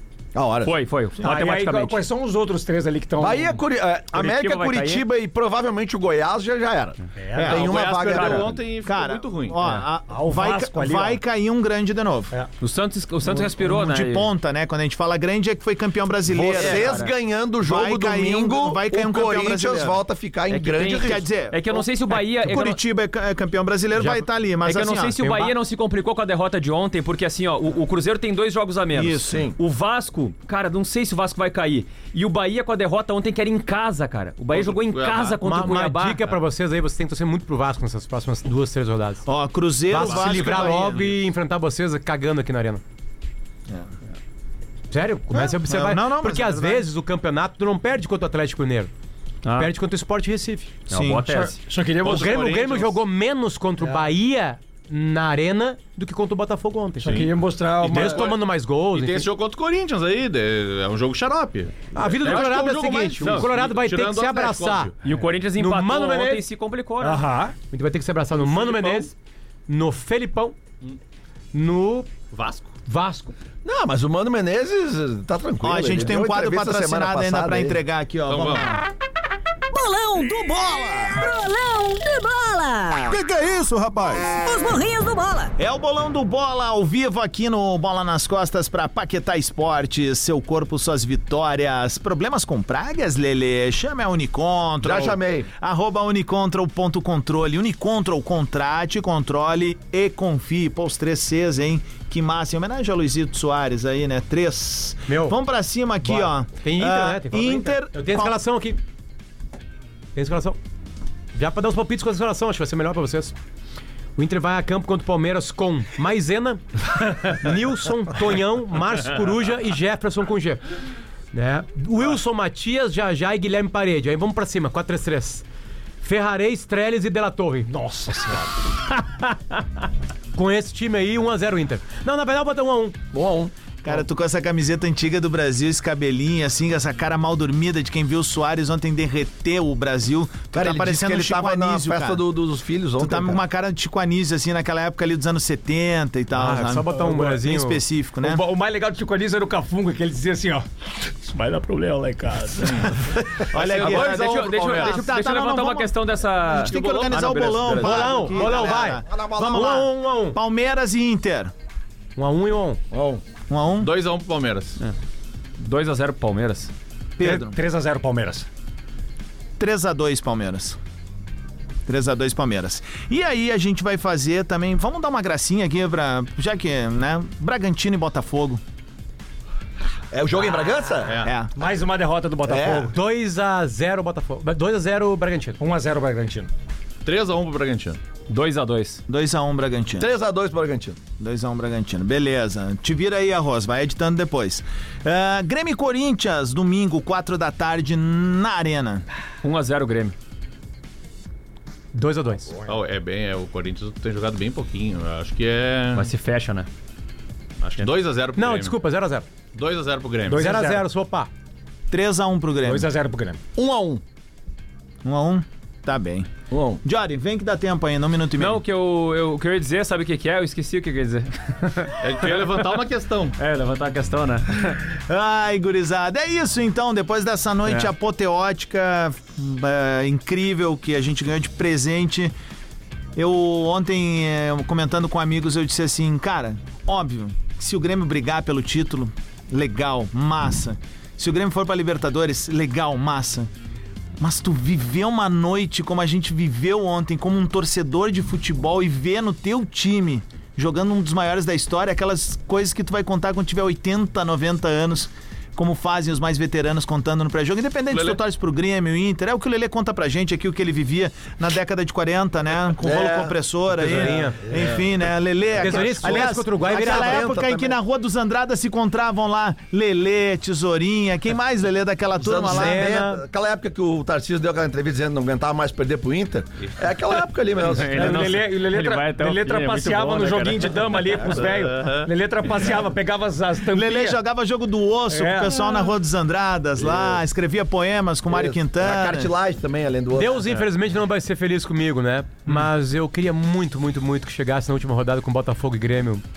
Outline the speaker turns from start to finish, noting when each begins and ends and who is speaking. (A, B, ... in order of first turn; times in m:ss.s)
0:00.3-0:00.7 A
0:00.6-0:02.0 B
0:01.2-0:03.6 C
0:03.2-0:08.6 A
0:04.1-0:05.0 B
0:07.2-0:07.6 C
0:07.4-0:07.6 D
0:07.4-0:09.6 E
0:07.4-0:08.6 B
0:08.5-0:12.3 D
0:10.1-0:11.2 C
0:12.6-0:14.3 B
0:13.2-0:17.0 D
0:16.3-0:21.3 A
0:16.4-0:17.1 B
0:17.6-0:20.0 D
0:20.5-0:22.8 B
0:20.8-0:25.5 D
0:24.0-0:36.3 B
0:28.9-0:29.5 D
0:29.3-0:29.6 A
0:34.5-0:35.4 E
0:35.4-0:39.2 F
0:39.2-0:41.2 D
0:39.9-0:42.8 F
0:40.0-0:41.0 E
0:44.9-0:48.9 F
0:45.3-0:46.9 D
0:49.4-0:49.7 B
0:49.6-0:50.7 F
0:50.9-0:51.6 B
0:50.9-0:51.3 D
0:51.3-0:52.4 C
0:52.0-0:57.2 F
0:52.0-0:52.9 E
0:53.8-0:54.1 C
0:57.0-0:58.3 C
0:57.1-0:58.4 E
0:57.8-0:59.3 F
0:58.9-1:04.9 E
1:01.9-1:04.9 F
1:02.2-1:02.6 B
1:03.2-1:03.5 B
1:05.0-1:07.2 B
1:05.6-1:06.4 F
1:07.0-1:07.6 C
1:07.7-1:09.1 F
1:08.4-1:09.1 E
1:09.7-1:10.6 F
1:11.5-1:12.1 F
1:12.3-1:12.7 E
1:12.8-1:13.3 F
1:13.6-1:17.8 A
1:15.6-1:18.8 D
1:18.3-1:18.7 E
1:19.7-1:23.2 G
1:20.4-1:21.2 D
1:23.1-1:24.3 D
1:24.3-1:25.5 G
1:25.6-1:48.4 D
1:34.8-1:35.5 A
1:45.1-1:45.4 F
1:46.0-1:48.8 F
1:50.2-1:50.6 F
1:51.3-1:53.3 F
1:54.2-1:56.6 F
1:57.2-2:00.6 F
2:01.3-2:05.4 F
2:06.0-2:07.7 F
2:07.7-2:08.5 C
2:10.3-2:13.0 F
2:13.1-2:13.5 A
2:13.8-2:22.2 D
2:20.5-2:23.4 A
2:23.0-2:28.4 D
2:26.3-2:27.8 F
2:26.9-2:27.3 C
2:28.2-2:33.0 C
2:33.5-2:41.5 D
2:33.5-2:35.1 E
2:33.6-2:37.9 B
2:36.5-2:38.2 E
2:37.7-2:40.4 F
2:38.3-2:39.9 A
2:42.2-2:42.8 F
2:42.9-2:43.2 A
2:43.5-2:43.9 D
2:43.8-2:44.8 E
2:45.6-2:46.7 B
2:47.2-2:47.6 D
2:47.2-2:48.5 C
2:49.6-2:50.8 D
2:51.9-2:58.6 D
3:00.1-3:01.3 A
3:01.2-3:01.5 D
3:01.5-3:02.9 C
3:02.4-3:02.9 A
3:02.9-3:05.6 F
3:05.6-3:06.5 C
3:07.0-3:08.0 E
3:08.3-3:09.0 B
3:09.1-3:10.1 D
3:10.0-3:11.0 A
3:11.2-3:19.0 D
3:19.4-3:20.1 B
3:21.9-3:22.5 F
3:22.6-3:26.1 E
3:25.9-3:26.7 B
3:27.6-3:28.8 E
3:28.4-3:29.2 F
3:29.5-3:30.4 E
3:30.3-3:30.8 C
3:30.3-3:31.3 F
3:31.9-3:32.9 D
3:32.6-3:33.4 C
3:33.6-3:34.0 A
3:35.0-3:36.3 D
3:36.5-3:36.8 A
3:36.8-3:38.6 D
3:38.4-3:42.6 B
3:42.0-3:43.4 E
3:43.4-3:44.8 B
3:45.1-3:52.3 D
3:53.2-4:03.5 D
4:04.2-4:33.0 D
4:17.9-4:18.2 E
4:22.8-4:24.8 A
4:23.7-4:24.4 F
4:25.6-4:27.3 F
4:25.6-4:27.7 A
4:32.2-4:38.2 A
4:32.4-4:33.2 F
4:37.6-4:41.4 B
4:37.9-4:44.2 C
4:41.7-4:42.1 E
4:43.7-4:49.3 D
4:45.1-4:45.8 C
4:46.8-4:47.2 A
4:48.3-4:50.6 A
4:50.1-4:56.2 F